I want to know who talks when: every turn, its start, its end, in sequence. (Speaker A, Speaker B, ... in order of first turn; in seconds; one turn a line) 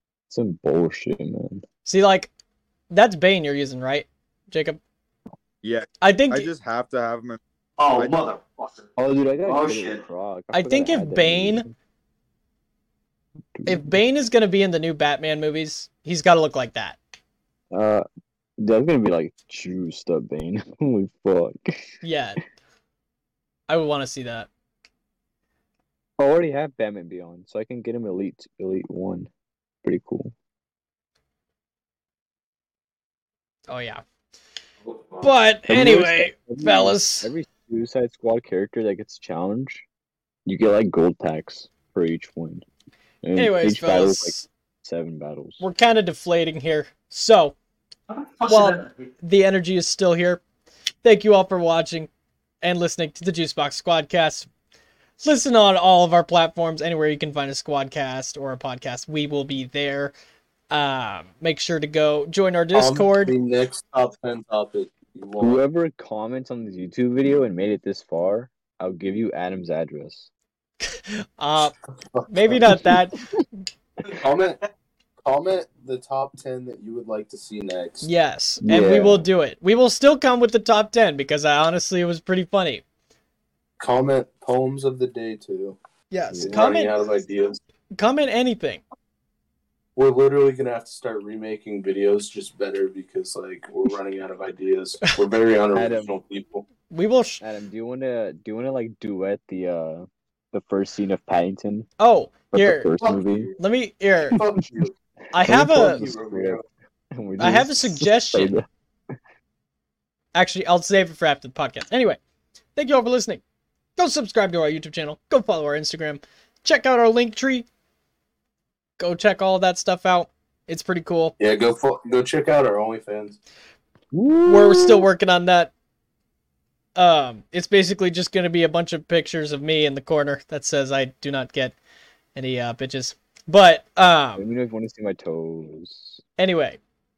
Speaker A: 0.3-1.6
Speaker B: 1.9-2.3
Speaker B: 2.9-4.8
Speaker C: 5.6-7.4
Speaker B: 6.0-6.5
Speaker D: 7.8-8.9
Speaker C: 7.9-8.2
Speaker A: 9.0-11.7
Speaker D: 9.4-10.0
Speaker B: 10.5-11.7
Speaker A: 13.6-13.9
Speaker B: 13.7-17.0
Speaker A: 17.7-18.1
Speaker A: 18.6-22.0
Speaker B: 22.0-22.4
Speaker B: 23.7-24.5
Speaker A: 26.2-29.3
Speaker A: 29.8-30.3
Speaker B: 33.7-34.0
Speaker B: 35.2-37.3
Speaker A: 35.7-39.9
Speaker A: 40.5-42.6
Speaker A: 43.2-45.6
Speaker B: 43.4-44.5
Speaker B: 45.6-47.6
Speaker D: 48.1-48.9
Speaker B: 48.4-50.4
Speaker B: 51.0-52.1
Speaker B: 52.6-54.5
Speaker B: 55.2-60.1
Speaker B: 60.7-63.4
Speaker E: 62.7-65.6
Speaker A: 65.4-70.3
Speaker B: 70.8-71.8
Speaker E: 72.0-72.8
Speaker B: 72.3-73.2
Speaker A: 72.7-73.4
Speaker E: 74.1-74.6
Speaker E: 75.2-78.1
Speaker B: 78.0-82.8
Speaker A: 78.6-79.3
Speaker E: 83.8-85.8
Speaker B: 86.1-86.9
Speaker E: 86.4-87.6
Speaker B: 88.0-88.8
Speaker E: 90.0-96.7
Speaker A: 95.7-96.2
Speaker B: 96.9-97.4
Speaker A: 97.4-101.9
Speaker B: 102.0-102.9
Speaker A: 102.5-103.5
Speaker E: 103.0-103.5
Speaker B: 103.6-104.4
Speaker A: 104.3-104.6
Speaker E: 104.3-106.6
Speaker B: 105.3-106.0
Speaker A: 105.3-106.6
Speaker A: 107.1-108.7
Speaker B: 107.4-108.5
Speaker B: 110.3-112.2
Speaker B: 112.8-113.4
Speaker B: 114.0-117.7
Speaker B: 119.0-121.3
Speaker E: 121.4-123.4
Speaker A: 124.1-125.1
Speaker B: 124.5-125.7
Speaker B: 127.0-131.8
Speaker B: 132.3-134.4
Speaker A: 134.4-136.2
Speaker B: 136.4-136.8